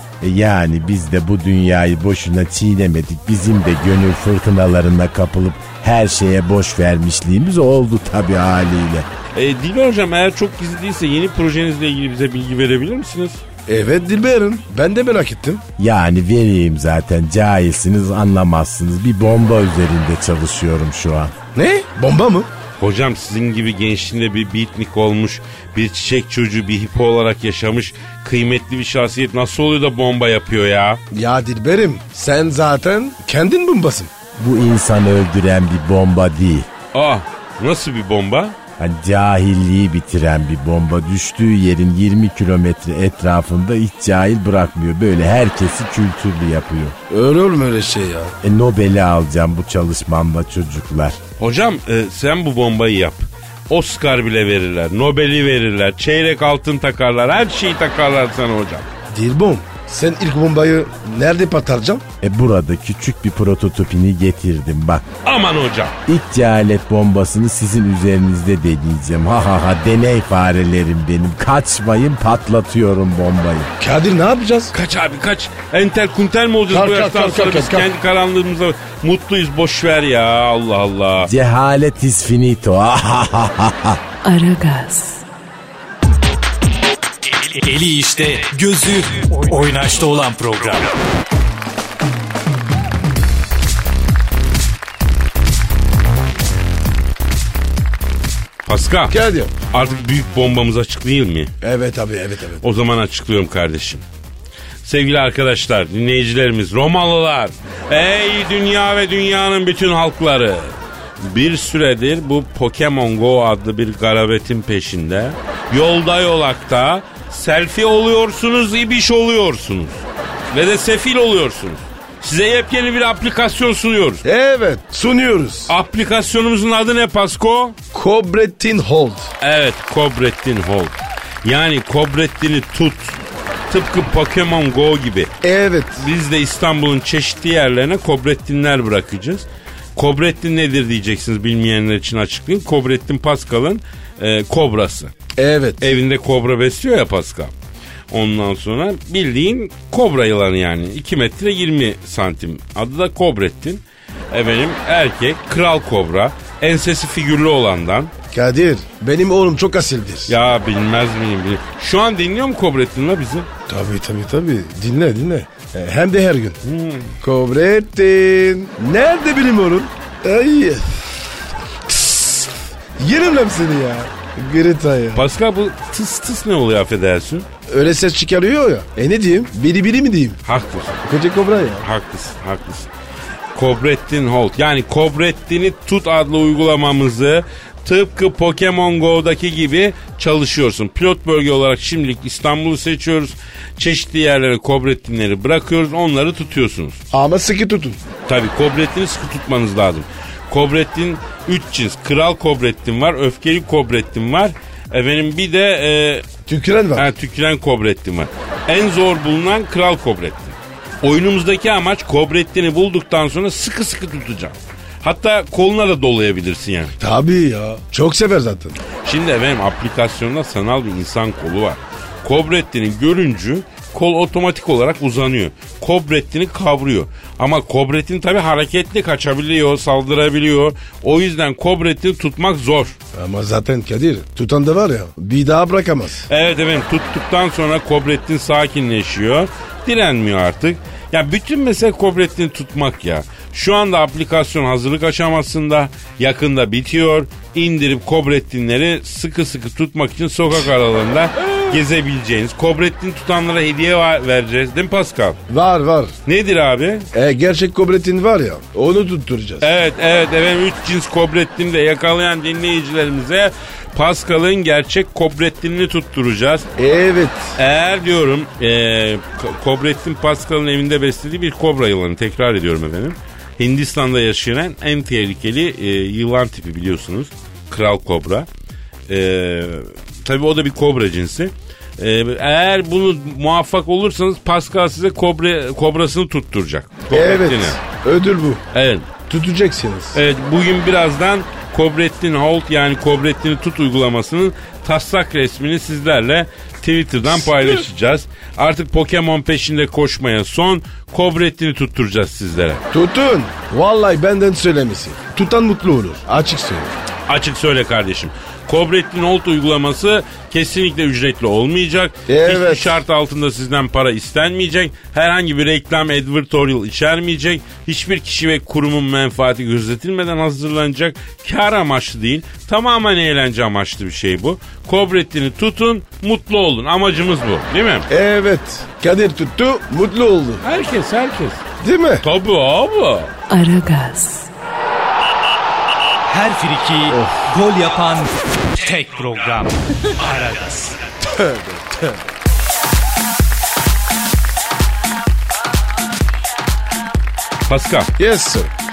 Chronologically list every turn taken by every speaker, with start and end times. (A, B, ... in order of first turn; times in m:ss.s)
0:00.2-0:09.1 A
0:09.3-0:13.4 B
0:13.7-0:15.6 C
0:15.8-0:21.3 A
0:21.5-0:22.5 C
0:22.8-0:31.0 B
0:31.1-0:34.1 C
0:34.4-0:36.7 A
0:36.9-0:38.6 B
0:38.8-0:47.0 A
0:47.1-0:48.3 C
0:48.4-0:51.2 A
0:51.4-0:58.9 B
0:59.1-1:02.0 C
1:02.2-1:05.1 A
1:05.2-1:05.9 B
1:06.0-1:13.7 A
1:13.8-1:14.7 C
1:14.7-1:21.3 B
1:16.7-1:17.9 C
1:21.2-1:24.0 A
1:24.2-1:25.2 D
1:27.3-1:31.0 E
1:38.6-1:39.2 B
1:39.1-1:39.5 C
1:39.7-1:41.5 B
1:41.6-1:42.6 C
1:42.6-1:44.0 B
1:44.8-2:04.2 B
2:04.2-2:05.7 C
2:05.7-2:07.8 B
2:07.9-2:09.3 C
2:09.4-2:13.2 B
2:13.7-2:15.3 B
2:15.4-2:16.1 C
2:16.0-2:25.1 B
2:25.4-2:26.0 C
2:25.8-2:27.5 B
2:28.1-2:38.1 B
2:38.3-2:40.3 C
2:40.3-2:43.5 B
2:43.7-2:46.6 C
2:46.6-2:47.2 B
2:47.2-2:51.0 C
2:51.9-2:55.2 C
2:55.1-2:57.5 B
2:57.7-3:00.4 C
3:00.4-3:01.0 B
3:01.0-3:01.8 C
3:01.8-3:02.9 B
3:03.5-3:17.0 B
3:17.1-3:18.0 C
3:18.3-3:26.2 B
3:26.4-3:27.1 C
3:26.9-3:36.9 B
3:37.0-3:38.8 C
3:39.0-3:53.0 B
3:53.1-3:56.2 C
3:56.3-4:15.4 B
4:15.5-4:16.1 C
4:16.2-4:17.1 B
4:17.1-4:19.6 C
4:19.6-4:26.7 B
4:26.8-4:27.6 C
4:27.6-4:38.5 B
4:39.1-4:47.8 B
4:47.1-4:48.6 C
4:48.7-4:49.1 B
4:49.3-4:50.2 C
4:50.1-5:02.8 B
4:57.3-4:57.9 C
5:02.9-5:06.9 C
5:07.3-5:28.1 B
5:12.3-5:13.0 C
5:28.1-5:30.6 C
5:30.6-5:31.6 B
5:31.8-5:32.2 C
5:32.2-5:33.3 B
5:33.5-5:34.5 D
5:36.3-5:41.0 E
5:37.1-5:37.4 C
5:41.2-5:42.2 C
5:47.7-5:48.1 B
5:48.2-5:48.7 C